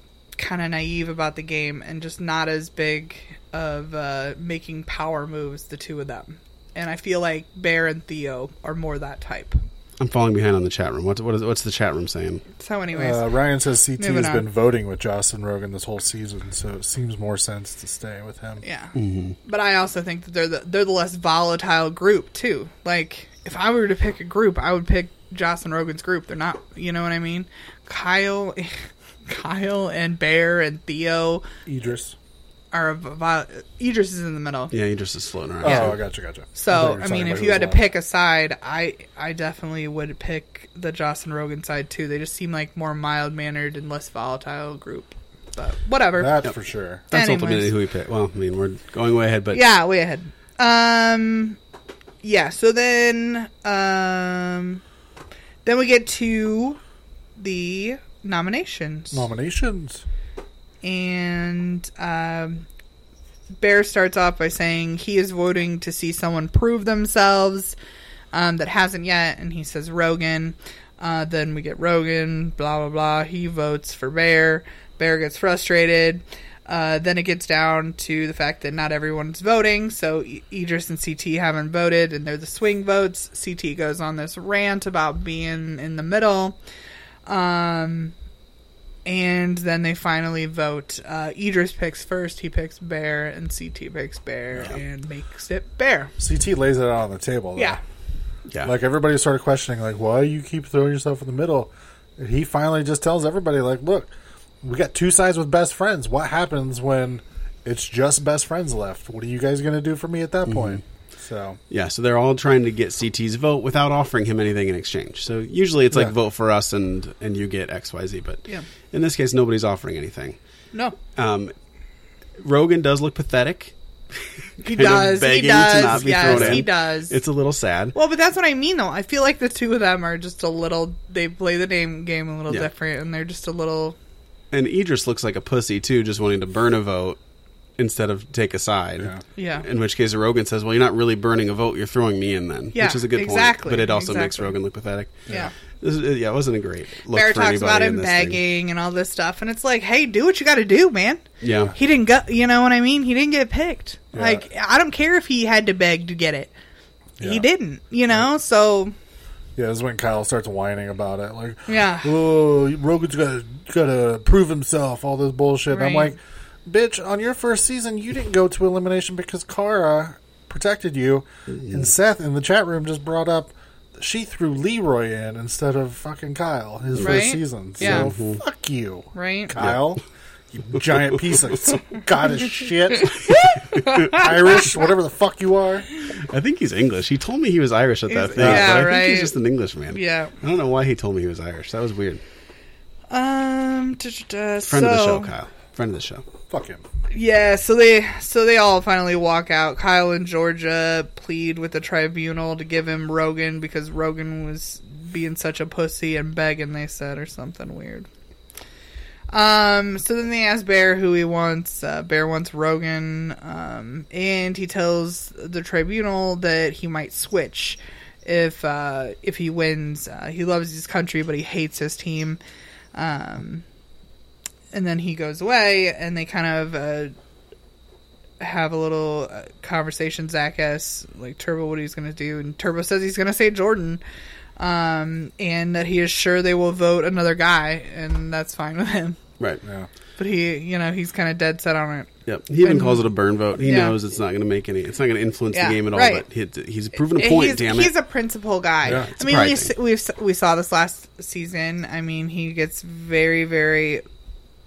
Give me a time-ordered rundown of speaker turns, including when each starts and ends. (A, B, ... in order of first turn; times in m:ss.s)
0:00.4-0:09.6 A
0:10.0-0:12.4 B
0:12.6-0:13.3 A
0:12.9-0:18.6 C
0:14.0-0:14.5 A
0:18.6-0:18.9 A
0:19.0-0:19.4 B
0:19.4-0:28.8 A
0:29.3-0:31.5 A
0:31.7-0:32.2 C
0:32.7-0:34.7 A
0:34.7-0:36.0 B
0:35.6-0:37.8 C
0:35.6-0:35.9 A
0:36.6-0:46.4 A
0:46.2-0:47.1 C
0:47.1-0:49.6 B
0:47.1-0:47.7 A
0:49.5-0:51.6 A
0:52.2-0:54.8 A
0:55.6-0:56.8 A
0:57.4-0:59.2 A
0:59.1-1:00.0 C
1:00.8-1:02.7 A
1:03.6-1:07.8 A
1:08.3-1:26.6 A
1:27.3-1:28.2 A
1:29.0-1:36.1 A
1:36.2-1:37.8 C
1:38.6-1:51.6 C
1:50.5-1:50.8 B
1:51.7-2:00.4 B
2:01.2-2:01.5 B
2:02.4-2:03.8 B
2:04.6-2:07.2 A
2:04.6-2:08.0 B
2:06.2-2:06.6 C
2:07.9-2:14.0 A
2:14.5-2:17.2 B
2:17.8-2:28.4 B
2:19.4-2:19.6 A
2:22.7-2:24.6 A
2:27.1-2:36.5 A
2:31.4-2:31.7 B
2:34.1-2:34.4 C
2:37.2-2:37.5 C
2:37.2-2:38.9 A
2:39.6-3:00.0 C
2:41.7-2:42.2 A
2:45.7-2:46.1 A
2:57.0-2:57.2 B
2:57.0-2:58.1 A
2:57.8-2:58.4 B
2:59.2-2:59.6 A
3:00.5-3:03.3 C
3:03.0-3:04.7 A
3:03.8-3:05.9 C
3:06.2-3:12.2 B
3:08.1-3:09.4 A
3:08.4-3:08.9 C
3:09.9-3:10.3 A
3:13.1-3:15.3 A
3:14.6-3:16.2 B
3:16.5-3:16.8 C
3:17.1-3:28.1 A
3:29.3-3:42.4 A
3:43.0-3:43.6 A
3:44.7-3:47.1 A
3:48.4-3:54.0 A
3:54.6-3:59.2 A
3:59.6-3:59.9 C
4:00.2-4:02.1 A
4:02.3-4:07.9 B
4:02.6-4:03.1 A
4:03.6-4:04.0 A
4:05.5-4:06.2 A
4:07.1-4:14.0 A
4:08.9-4:09.7 B